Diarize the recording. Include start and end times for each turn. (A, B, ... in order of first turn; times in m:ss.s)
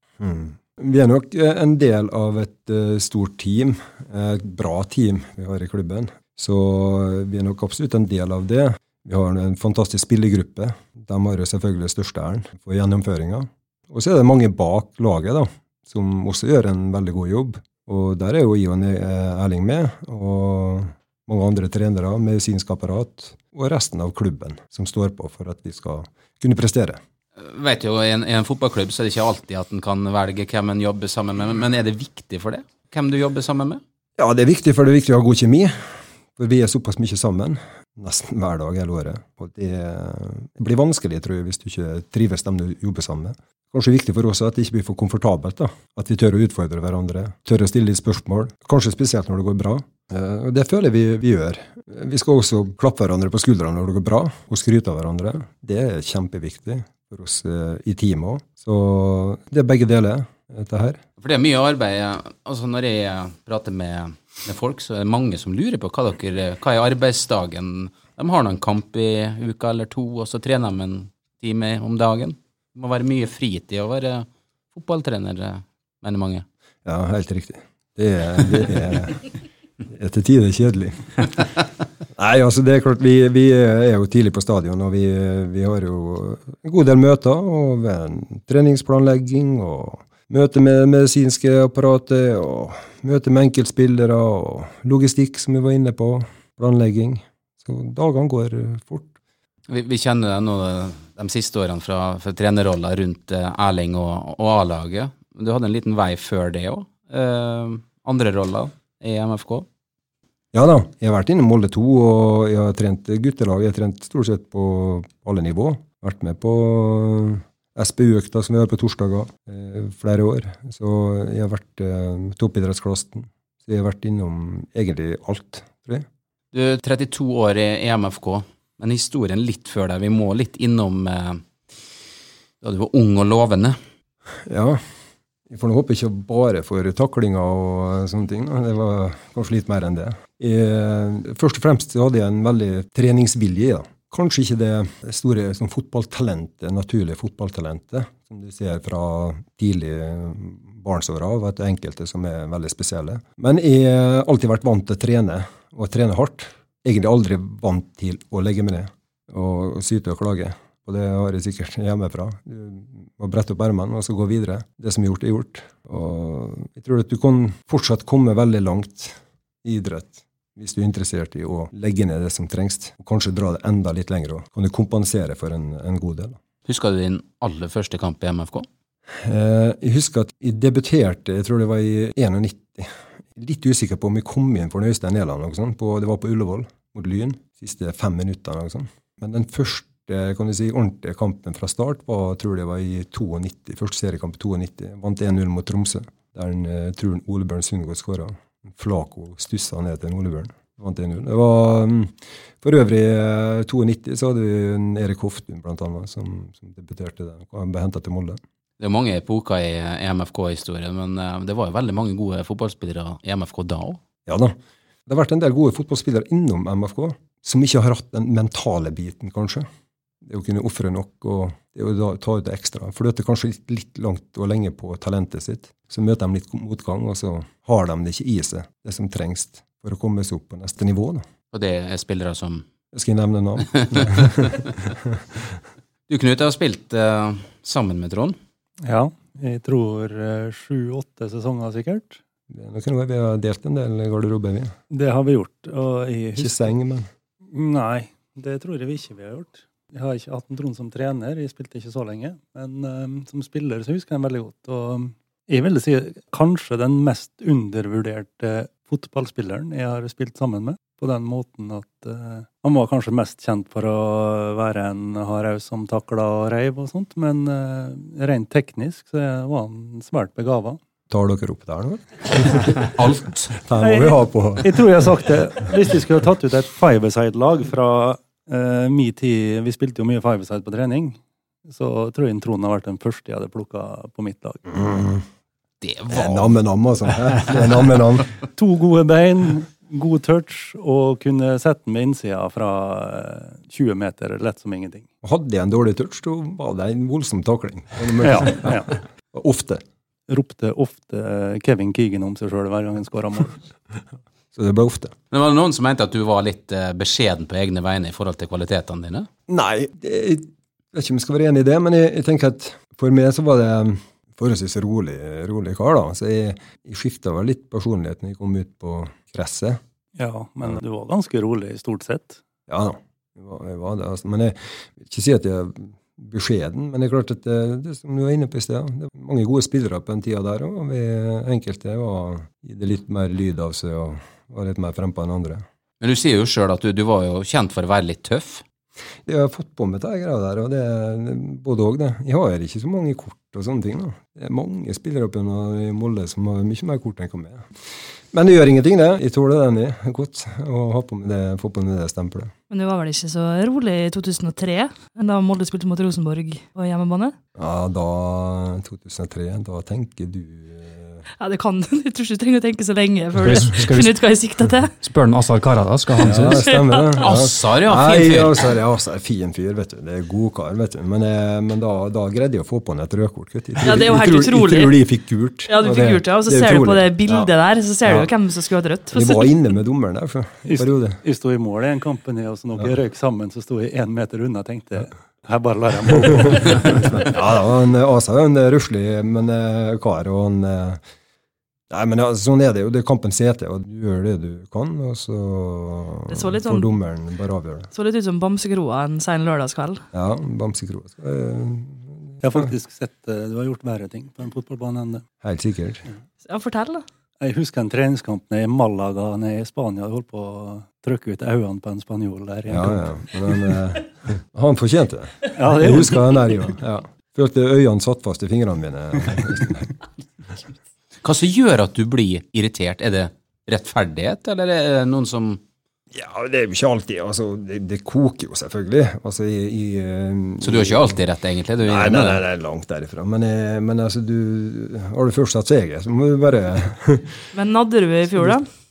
0:00.2-0:27.0 A
0:27.4-0:33.8 B
0:34.2-0:35.8 A
0:36.4-1:01.0 A
1:01.2-1:16.4 B
1:16.8-1:19.3 A
1:19.8-1:21.6 A
1:22.2-1:39.1 A
1:39.7-1:49.7 B
1:50.5-2:06.1 A
2:06.5-2:11.8 B
2:12.6-2:13.8 B
2:14.5-2:14.8 A
2:15.5-2:56.4 A
2:56.7-2:58.7 B
2:59.2-3:28.4 A
3:28.8-3:34.0 B
3:34.3-3:34.6 A
3:35.1-3:39.7 A
3:40.2-3:51.2 A
3:51.5-3:52.6 B
3:52.9-3:55.6 A
3:53.7-3:54.5 B
3:56.1-3:58.4 B
3:58.8-4:02.2 C
4:02.5-4:04.7 A
4:04.9-4:06.7 C
4:06.4-4:07.1 A
4:07.5-4:30.8 C
4:31.1-4:32.9 A
4:33.0-4:33.5 B
4:33.5-4:34.8 A
4:33.8-4:44.9 C
4:44.7-4:45.2 A
4:45.8-4:46.6 B
4:46.1-4:48.3 A
4:48.6-4:55.1 C
4:55.2-4:59.8 A
4:58.2-4:58.9 C
5:00.3-5:03.6 C
5:04.5-5:05.2 A
5:05.3-5:09.3 B
5:09.5-5:19.8 A
5:20.2-5:22.4 C
5:22.7-5:35.6 A
5:36.0-5:38.6 B
5:39.3-5:47.7 A
5:48.3-5:52.5 A
5:52.7-5:57.3 D
5:57.6-6:01.2 A
6:01.4-6:04.9 D
6:03.4-6:04.2 E
6:05.0-6:06.8 E
6:06.2-6:17.5 A
6:06.7-6:07.2 D
6:07.2-6:08.7 B
6:13.8-6:15.0 D
6:15.7-6:19.5 D
6:18.0-6:18.3 A
6:19.1-6:21.2 A
6:20.6-6:27.3 C
6:26.3-6:31.0 A
6:31.9-6:37.9 A
6:36.3-6:36.9 D
6:37.9-6:40.0 D
6:40.1-6:42.7 A
6:42.4-6:45.2 C
6:45.4-6:46.0 A
6:46.4-6:47.0 D
6:47.4-6:53.8 C
6:52.7-6:59.9 A
6:55.6-6:56.4 C
7:01.2-7:05.6 B
7:06.1-7:11.2 A
7:10.6-7:12.4 B
7:11.8-7:17.4 A
7:17.5-7:18.7 D